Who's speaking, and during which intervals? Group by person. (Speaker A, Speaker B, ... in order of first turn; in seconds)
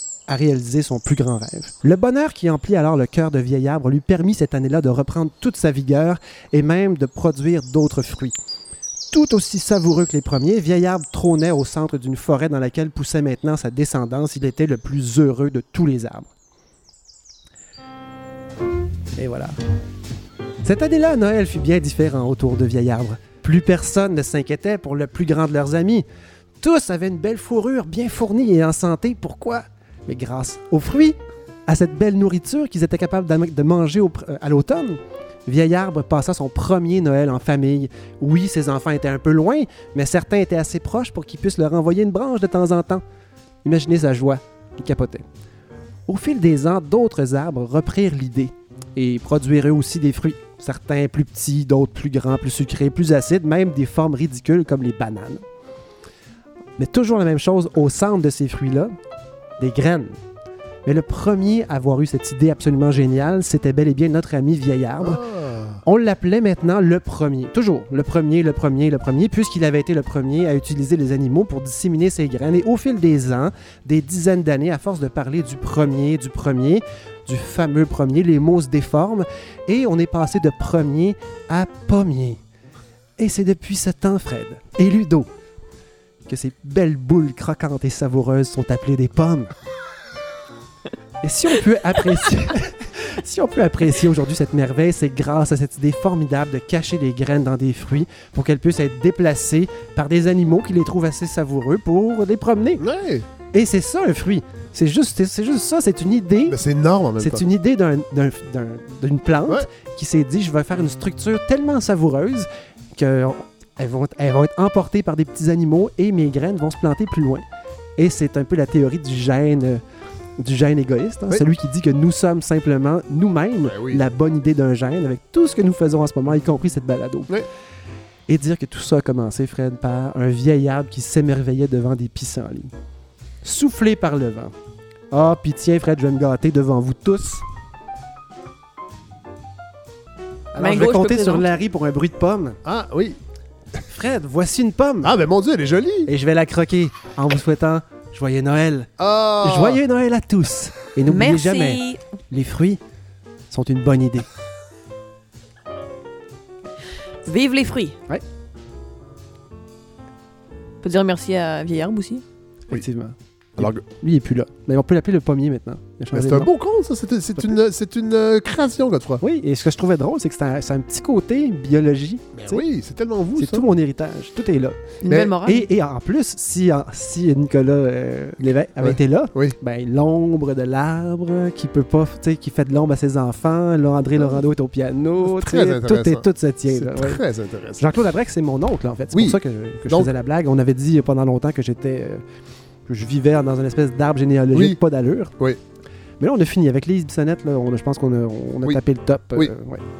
Speaker A: 0.3-8.3, 9.1-16.3, 19.1-19.6, 20.6-26.1, 26.6-43.0, 43.6-45.2, 46.1-55.4, 56.8-58.9, 59.6-60.1, 60.8-65.2, 65.8-82.4, 83.2-85.3, 86.2-89.5, 91.2-102.8, 103.5-106.6, 107.2-117.4, 118.0-119.8, 120.4-127.3, 128.3-132.7, 133.4-134.5, 135.1-137.4, 140.5-142.6, 143.8-145.1, 146.1-152.8, 153.5-154.3, 162.7-166.5, 169.2-172.6, 173.3-187.2, 187.8-192.2, 192.8-195.3, 196.2-199.8
Speaker B: 65.0-65.8, 102.8-103.3, 106.4-107.4, 123.6-124.0, 142.6-143.2, 145.0-146.1, 149.0-149.8, 166.1-169.2, 172.3-173.7, 175.1-175.3, 178.8-179.6, 185.2-187.9, 189.1-190.1, 194.5-194.8
Speaker C: 140.6-141.4, 151.1-152.0, 157.2-158.0, 160.8-162.2, 175.0-175.7